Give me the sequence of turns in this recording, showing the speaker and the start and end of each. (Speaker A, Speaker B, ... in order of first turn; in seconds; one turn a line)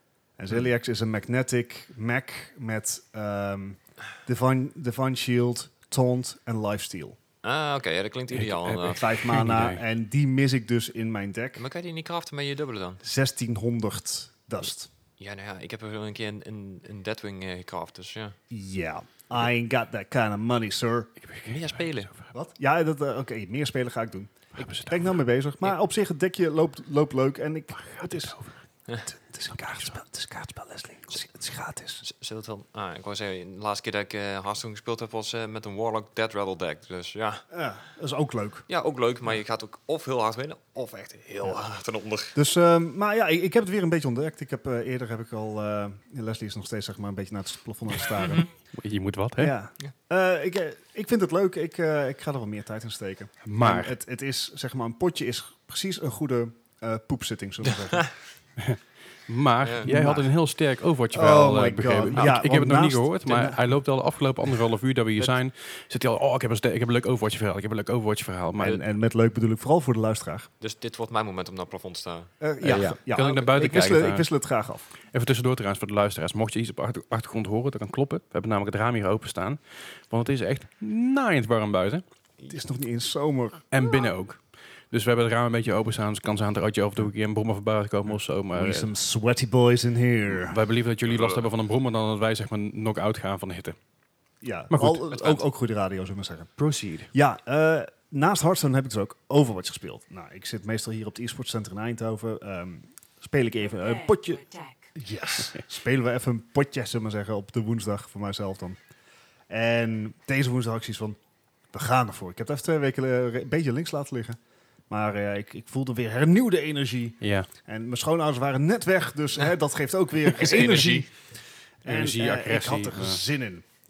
Speaker A: 0.4-7.2
Speaker B: 7.4-9.0
Speaker C: 8.3-9.8
Speaker A: 8.8-11.7
Speaker B: 11.6-13.0
Speaker A: 13.0-14.9
Speaker B: 15.2-18.4
Speaker A: 18.5-21.1
Speaker C: 21.2-22.2
Speaker B: 21.5-22.1
Speaker A: 22.3-28.4
Speaker C: 24.6-25.1
Speaker C: 27.8-28.6
Speaker A: 29.1-32.0
Speaker C: 29.6-29.9
Speaker B: 32.0-37.5
Speaker A: 37.5-38.7
Speaker B: 38.7-42.4
Speaker A: 42.4-48.5
Speaker B: 48.2-48.5
Speaker C: 48.7-49.5
Speaker A: 49.4-58.1
Speaker C: 53.4-53.9
Speaker C: 58.6-68.8
Speaker A: 59.8-60.3
Speaker A: 61.1-63.6
Speaker A: 68.6-70.5
Speaker B: 70.6-73.0
Speaker A: 72.4-74.9
Speaker C: 73.1-74.3
Speaker C: 75.1-82.0
Speaker A: 82.5-83.7
Speaker C: 83.7-84.4
Speaker C: 84.9-88.9
Speaker A: 88.5-90.6
Speaker C: 90.4-93.8
Speaker B: 91.1-91.4
Speaker A: 94.4-96.5
Speaker C: 94.7-95.1
Speaker C: 96.6-97.1
Speaker A: 97.1-108.8
Speaker A: 109.5-111.2
Speaker A: 111.7-114.4
Speaker A: 114.9-121.1
Speaker C: 117.2-117.5
Speaker B: 120.4-121.0
Speaker C: 120.4-121.1
Speaker A: 121.8-123.7
Speaker C: 121.8-123.2